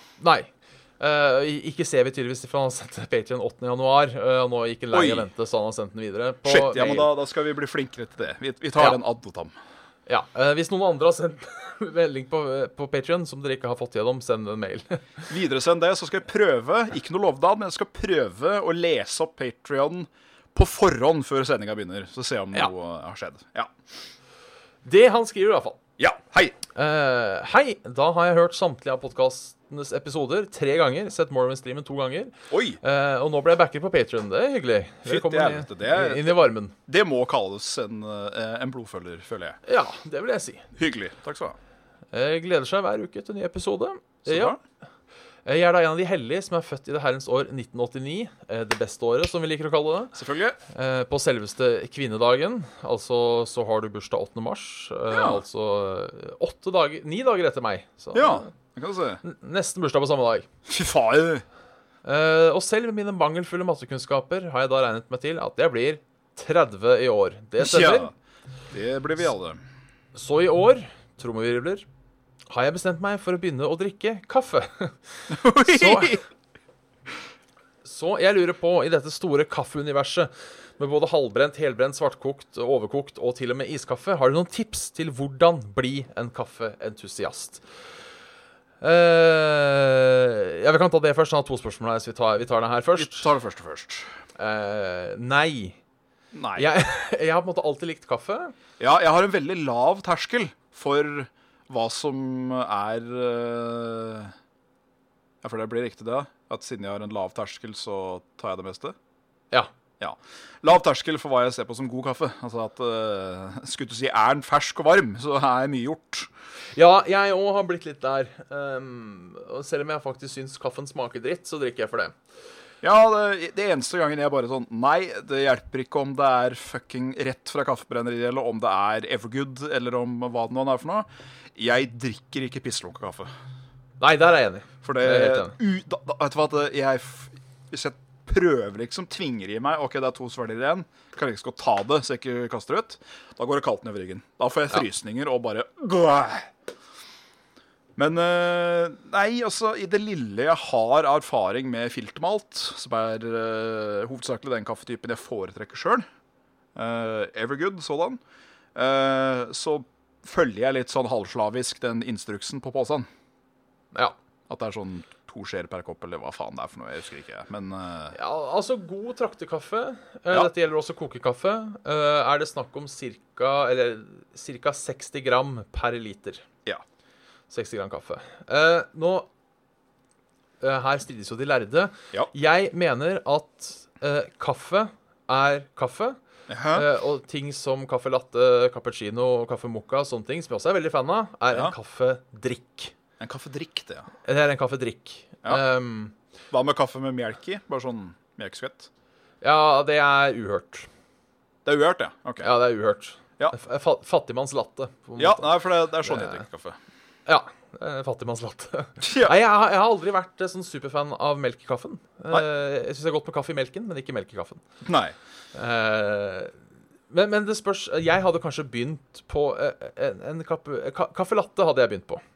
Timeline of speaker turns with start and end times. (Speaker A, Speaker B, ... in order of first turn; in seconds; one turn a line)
Speaker A: 0.2-7.1
Speaker B: 4.9-5.3
Speaker B: 6.5-9.5
Speaker A: 10.1-15.3
Speaker B: 15.3-23.7
Speaker A: 24.8-25.8
Speaker B: 26.0-26.6
Speaker A: 26.7-36.7
Speaker B: 32.5-32.8
Speaker B: 35.0-36.4
Speaker B: 36.9-39.6
Speaker A: 39.6-40.6
Speaker B: 40.7-41.6
Speaker A: 42.1-44.5
Speaker B: 44.2-44.6
Speaker A: 45.5-50.1
Speaker B: 50.1-50.6
Speaker A: 50.7-58.5
Speaker B: 55.1-55.4
Speaker B: 58.1-59.2
Speaker A: 59.2-60.5
Speaker B: 60.6-61.4
Speaker A: 62.0-68.1
Speaker B: 67.6-68.1
Speaker B: 68.7-69.6
Speaker A: 70.1-71.8
Speaker A: 72.5-76.2
Speaker B: 75.3-76.2
Speaker A: 77.8-87.6
Speaker A: 88.8-93.3
Speaker B: 93.0-94.1
Speaker A: 94.4-95.8
Speaker B: 96.3-96.7
Speaker A: 96.5-98.5
Speaker B: 98.8-104.3
Speaker B: 105.4-108.9
Speaker B: 110.0-116.3
Speaker A: 116.7-122.2
Speaker B: 122.8-133.3
Speaker A: 134.0-135.6
Speaker B: 134.8-146.5
Speaker B: 147.9-156.0
Speaker B: 156.7-158.2
Speaker B: 158.7-163.1
Speaker B: 164.5-168.1
Speaker A: 168.1-176.4
Speaker A: 177.5-179.3
Speaker A: 180.6-186.2
Speaker B: 186.5-186.9
Speaker A: 186.7-192.9
Speaker B: 193.2-194.1
Speaker A: 194.2-196.1
Speaker B: 196.5-198.9
Speaker A: 199.4-200.9
Speaker B: 201.6-202.5
Speaker A: 202.4-206.4
Speaker B: 205.2-206.8
Speaker A: 207.2-214.6
Speaker B: 209.0-209.3
Speaker B: 214.8-215.1
Speaker A: 215.5-216.6
Speaker A: 217.1-222.2